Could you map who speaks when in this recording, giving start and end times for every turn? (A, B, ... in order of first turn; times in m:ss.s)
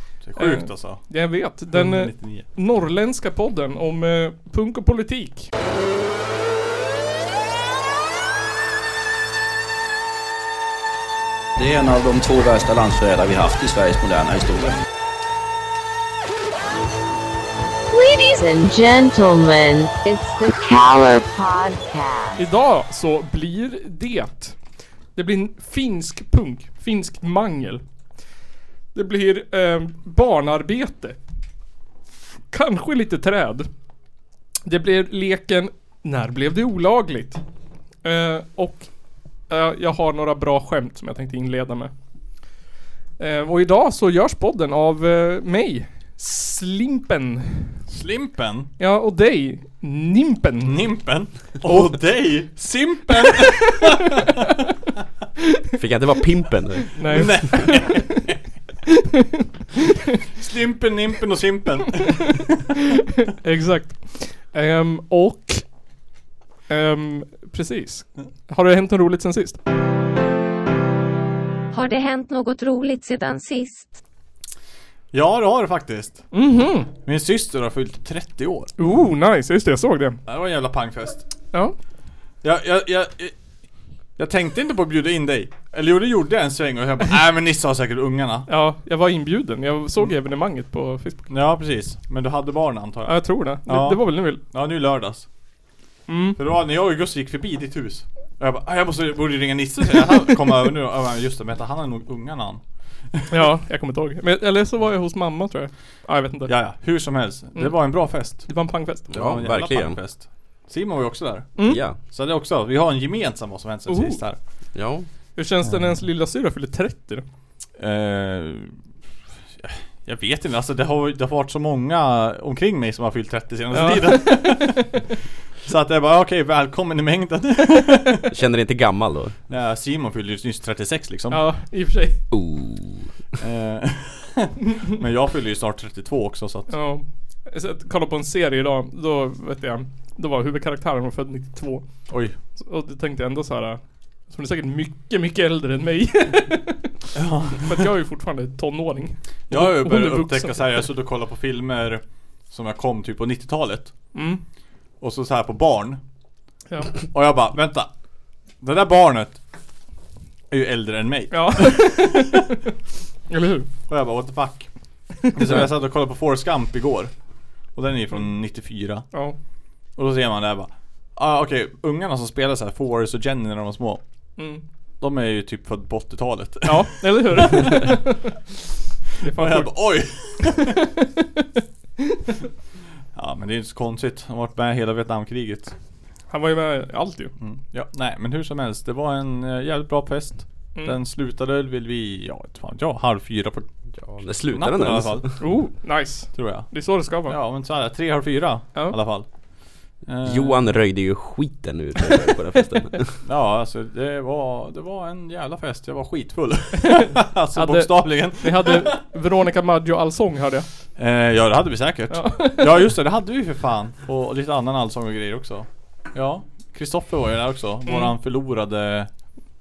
0:00.2-0:01.0 A
0:00.4-0:05.5 B
0:01.7-0:02.5 A
0:11.6-0:14.8 C
0:17.9-0:22.4 D
0:22.4-0:24.6 B
0:25.2-0:27.8 B
0:28.9-0:31.2 B
0:32.5-0:33.7 B
0:34.7-0:37.4 B
0:38.0-0:38.9 B
0:39.5-0:41.9 B
0:43.2-0:47.8 B
0:47.9-0:48.7 A
0:48.8-0:50.8 B
0:50.6-0:54.4 A
0:55.8-0:57.4 E
0:56.9-0:58.2 B
0:57.1-0:58.4 A
0:58.9-0:59.4 B
1:00.3-1:02.6 A
1:03.3-1:05.6 B
1:06.7-1:09.6 B
1:11.7-1:14.0 F
1:15.1-1:16.2 A
1:16.3-1:16.9 B
1:17.0-1:18.7 A
1:18.8-1:20.2 B
1:20.2-1:21.3 A
1:22.4-1:23.4 A
1:24.2-1:28.5 A
1:28.5-1:31.3 B
1:31.3-1:35.3 A
1:33.0-1:34.4 B
1:36.1-1:36.4 B
1:36.4-1:42.6 A
1:43.1-1:43.5 A
1:43.3-1:46.5 B
1:46.4-1:48.5 A
1:47.6-1:49.1 B
1:49.1-1:51.6 A
1:49.1-1:50.0 E
1:51.7-1:52.0 E
1:52.1-1:54.4 A
1:53.9-1:54.2 B
1:54.8-1:55.1 E
1:55.4-1:57.2 B
1:55.6-1:56.0 A
1:57.8-1:58.8 A
1:59.6-2:05.0 A
2:03.7-2:05.1 B
2:05.6-2:08.3 A
2:08.3-2:09.4 E
2:09.5-2:11.4 A
2:11.3-2:12.2 B
2:12.3-2:13.1 E
2:13.4-2:16.7 A
2:16.7-2:21.8 B
2:22.1-2:22.4 A
2:22.6-2:27.0 B
2:27.2-2:27.9 A
2:27.6-2:30.8 B
2:29.5-2:34.0 A
2:34.1-2:34.4 B
2:35.0-2:36.0 A
2:36.7-2:37.0 B
2:37.0-2:37.9 A
2:38.6-2:39.4 A
2:40.5-2:42.4 A
2:41.3-2:42.5 B
2:43.3-2:43.7 B
2:43.9-2:47.1 A
2:45.3-2:45.6 B
2:47.7-2:49.1 A
2:50.0-2:54.0 A
2:54.4-2:54.6 B
2:55.0-2:58.0 A
2:56.6-2:58.4 B
2:59.2-3:01.5 B
2:59.3-3:00.8 A
3:03.1-3:05.8 A
3:06.3-3:07.3 B
3:07.4-3:13.7 A
3:14.0-3:15.3 E
3:14.4-3:15.3 A
3:15.4-3:17.4 B
3:16.3-3:19.3 A
3:20.0-3:20.8 A
3:20.2-3:23.2 E
3:23.2-3:29.0 A
3:26.8-3:30.7 B
3:31.0-3:39.1 A
3:32.1-3:32.9 B